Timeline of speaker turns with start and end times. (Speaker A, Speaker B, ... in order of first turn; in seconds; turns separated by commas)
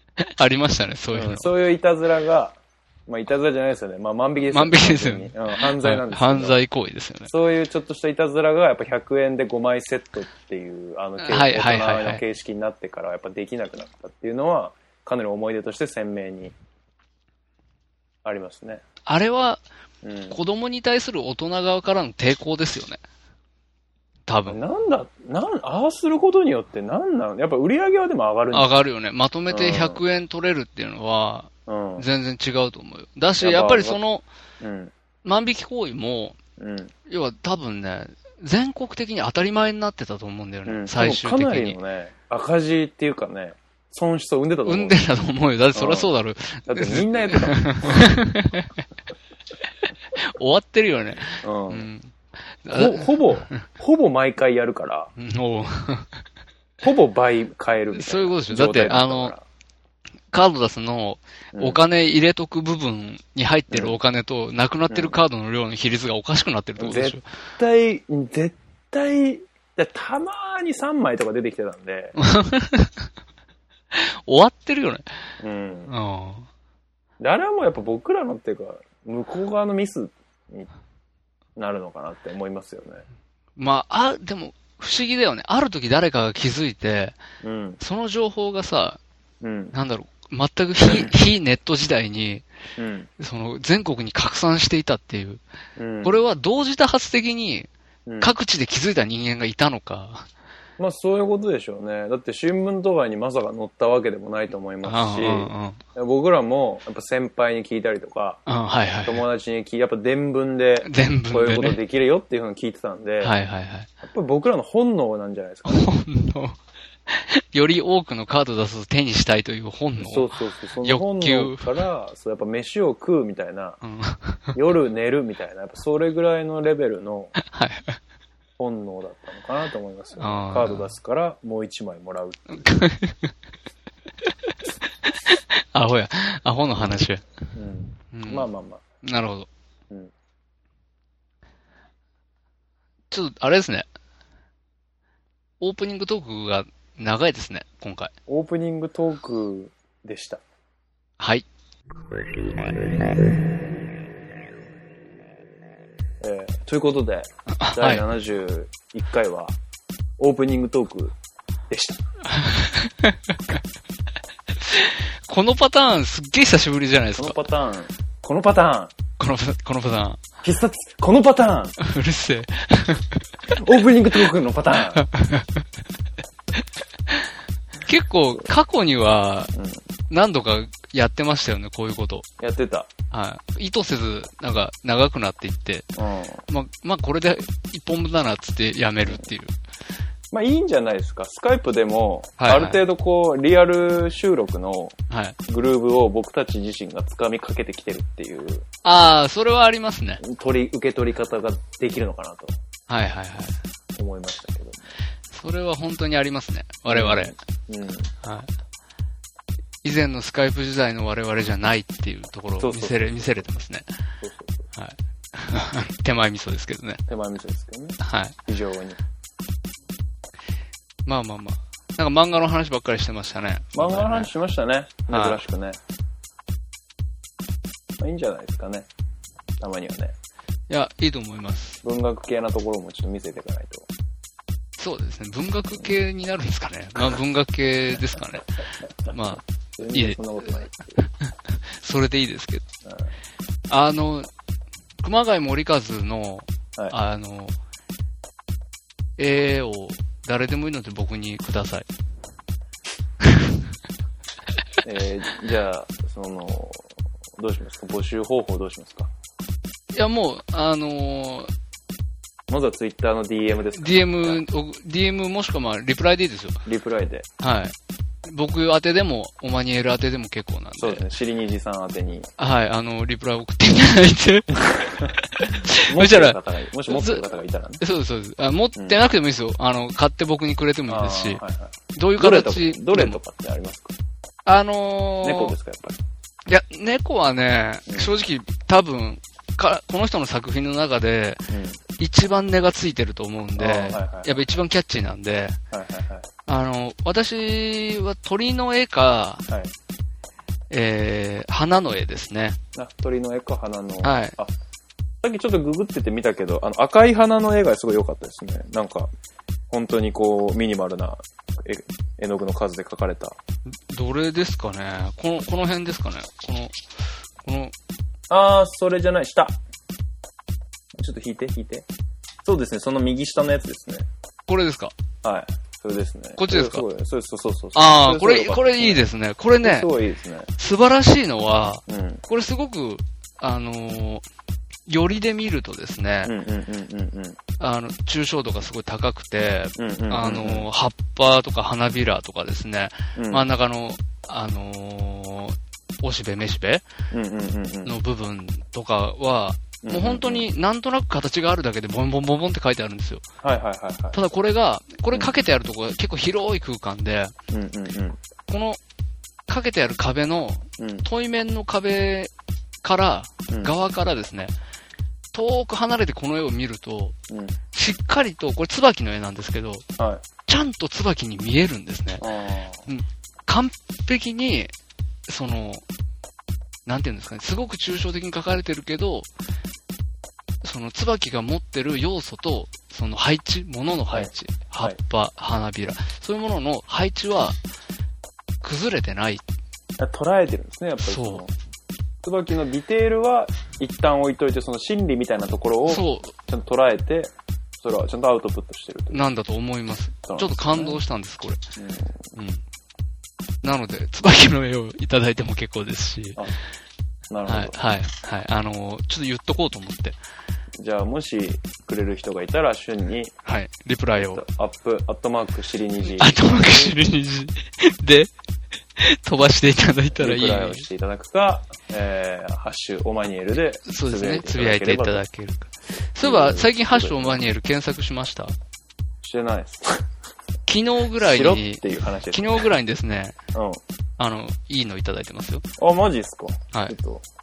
Speaker A: 0.2-1.5, Speaker B: 1.1-6.6, Speaker A: 4.5-7.3, Speaker B: 7.3-16.5, Speaker A: 11.2-12.2, Speaker B: 18.2-18.8, Speaker A: 19.1-19.6, Speaker B: 20.0-20.4, Speaker A: 20.3-23.0, Speaker A: 24.3-24.6, Speaker B: 24.5-28.7, Speaker A: 28.5-34.2, Speaker B: 29.5-30.0, Speaker B: 31.7-32.0, Speaker B: 33.4-34.0, Speaker B: 34.6-34.9, Speaker A: 35.2-36.4, Speaker B: 36.6-36.9, Speaker A: 37.1-41.8, Speaker B: 40.7-45.0, Speaker A: 44.6-48.7, Speaker B: 45.8-46.1, Speaker B: 46.7-48.0, Speaker A: 50.1-52.1, Speaker B: 51.4-51.9, Speaker A: 52.6-53.6, Speaker B: 52.7-55.1, Speaker A: 55.2-56.1, Speaker B: 56.8-59.4, Speaker A: 57.9-59.4, Speaker A: 60.3-67.3, Speaker B: 61.5-61.8, Speaker B: 63.7-64.0, Speaker B: 64.9-65.2, Speaker B: 66.8-72.2, Speaker A: 72.2-73.1, Speaker A: 73.9-75.0, Speaker B: 75.4-75.9, Speaker A: 75.9-76.5, Speaker B: 77.2-80.7, Speaker B: 81.6-83.0, Speaker A: 83.6-87.2, Speaker B: 87.4-87.8, Speaker A: 87.8-89.0, Speaker B: 89.4-89.8, Speaker A: 89.7-92.5, Speaker B: 90.9-91.2, Speaker B: 92.8-93.1, Speaker A: 93.2-95.4, Speaker B: 95.8-96.2, Speaker A: 96.0-97.7, Speaker B: 98.1-98.3, Speaker A: 98.2-100.3, Speaker B: 100.8-108.4, Speaker A: 104.8-105.8, Speaker A: 108.5-109.2, Speaker B: 109.0-113.3, Speaker A: 110.8-111.8, Speaker A: 113.2-113.9, Speaker B: 114.0-115.9, Speaker A: 115.7-116.6, Speaker A: 117.1-120.3, Speaker B: 120.0-123.8, Speaker A: 120.8-121.7, Speaker A: 123.8-124.5, Speaker B: 124.5-127.3, Speaker A: 127.4-128.0, Speaker B: 128.6-132.7, Speaker A: 130.2-130.9, Speaker A: 132.6-133.3, Speaker A: 135.1-137.2, Speaker B: 136.8-138.8, Speaker A: 138.1-138.5, Speaker A: 139.0-139.5, Speaker A: 143.1-143.9, Speaker A: 145.6-148.1, Speaker B: 148.3-150.4, Speaker A: 151.2-151.5, Speaker B: 156.2-159.6, Speaker A: 157.5-158.1, Speaker B: 160.2-161.2, Speaker B: 161.7-162.0, Speaker A: 162.3-163.6, Speaker A: 164.6-167.4, Speaker B: 167.2-168.9, Speaker A: 169.2-170.2, Speaker B: 170.4-171.8, Speaker A: 171.8-173.2, Speaker B: 173.5-175.1, Speaker A: 174.9-175.7, Speaker A: 177.8-179.5, Speaker B: 179.6-179.8, Speaker A: 180.1-182.3, Speaker B: 182.4-182.9, Speaker A: 183.1-185.9, Speaker B: 186.0-186.4, Speaker A: 186.5-189.5, Speaker B: 190.3-195.0, Speaker A: 192.4-192.8, Speaker A: 195.1-195.4, Speaker B: 195.5-198.7, Speaker A: 198.8-200.2, Speaker B: 200.2-202.6, Speaker A: 202.9-203.6, Speaker B: 203.9-204.9, Speaker A: 205.3-207.3, Speaker B: 206.9-208.1, Speaker A: 208.2-208.5, Speaker A: 209.8-213.9, Speaker B: 212.6-213.5, Speaker B: 214.2-214.7, Speaker A: 214.7-217.0, Speaker B: 217.1-219.0, Speaker A: 218.0-218.4, Speaker A: 221.1-224.3, Speaker B: 223.8-225.8, Speaker A: 225.1-225.4, Speaker B: 228.0-228.9, Speaker B: 229.6-230.2, Speaker A: 230.7-231.8, Speaker B: 231.8-233.9, Speaker A: 234.8-242.7, Speaker B: 239.8-240.9, Speaker B: 242.8-243.1, Speaker A: 243.7-244.3, Speaker A: 245.0-247.6, Speaker A: 249.2-251.9, Speaker A: 253.2-253.5, Speaker B: 254.8-259.1, Speaker A: 259.9-261.5, Speaker B: 262.5-264.4, Speaker A: 263.8-266.6, Speaker B: 266.6-267.3, Speaker A: 267.4-271.1, Speaker B: 270.8-272.3, Speaker A: 272.4-281.4, Speaker B: 274.7-275.1, Speaker B: 275.7-277.8, Speaker B: 280.9-283.9, Speaker A: 281.9-283.2, Speaker A: 284.5-285.6, Speaker B: 285.2-286.0, Speaker A: 286.5-295.6, Speaker B: 287.9-288.1, Speaker B: 291.5-291.8, Speaker B: 293.6-294.4, Speaker B: 295.7-296.3, Speaker A: 296.5-299.5, Speaker B: 299.5-299.7, Speaker A: 300.7-302.6, Speaker B: 302.8-304.5, Speaker A: 304.0-304.4, Speaker B: 305.2-309.1, Speaker B: 309.7-313.4, Speaker A: 313.7-316.8, Speaker A: 317.4-317.7, Speaker B: 318.3-319.6, Speaker B: 320.9-321.9, Speaker B: 322.4-324.1, Speaker A: 324.5-324.9, Speaker B: 325.2-329.1, Speaker A: 326.4-326.9, Speaker A: 327.8-329.9, Speaker B: 329.6-330.5, Speaker A: 330.6-334.2, Speaker B: 331.9-332.2, Speaker A: 334.9-336.3, Speaker B: 336.2-337.4, Speaker A: 337.6-346.9, Speaker B: 339.8-340.7, Speaker B: 343.2-343.4, Speaker B: 347.1-347.9, Speaker A: 347.9-353.2, Speaker B: 349.8-350.5, Speaker B: 353.4-354.2, Speaker A: 354.1-357.3, Speaker B: 357.5-358.2, Speaker A: 358.5-358.8, Speaker A: 359.5-362.3, Speaker B: 360.8-361.1, Speaker A: 362.8-364.5, Speaker A: 365.3-367.2, Speaker B: 367.3-367.6, Speaker A: 367.7-369.9, Speaker B: 370.0-370.2, Speaker A: 370.5-372.2, Speaker B: 372.2-372.8, Speaker A: 372.9-374.7, Speaker A: 375.3-375.8, Speaker A: 376.9-379.3, Speaker A: 380.6-387.6, Speaker B: 384.1-385.0, Speaker A: 388.6-389.4, Speaker B: 390.0-391.5, Speaker A: 391.0-391.4, Speaker B: 392.2-399.3, Speaker A: 395.9-396.4, Speaker A: 399.1-401.6, Speaker B: 400.3-401.0, Speaker B: 401.8-402.3, Speaker A: 402.4-402.6, Speaker A: 403.6-406.4, Speaker B: 407.3-407.8, Speaker A: 407.5-410.2, Speaker B: 410.8-413.4, Speaker A: 413.4-414.4, Speaker B: 414.2-416.9, Speaker A: 416.1-418.3, Speaker A: 419.0-420.9, Speaker B: 420.2-425.2, Speaker A: 423.9-428.6, Speaker B: 426.2-427.5, Speaker B: 429.2-430.1, Speaker A: 430.7-433.4, Speaker B: 431.2-432.7, Speaker B: 433.5-433.8, Speaker A: 434.2-435.6, Speaker B: 435.8-437.2, Speaker A: 436.7-437.0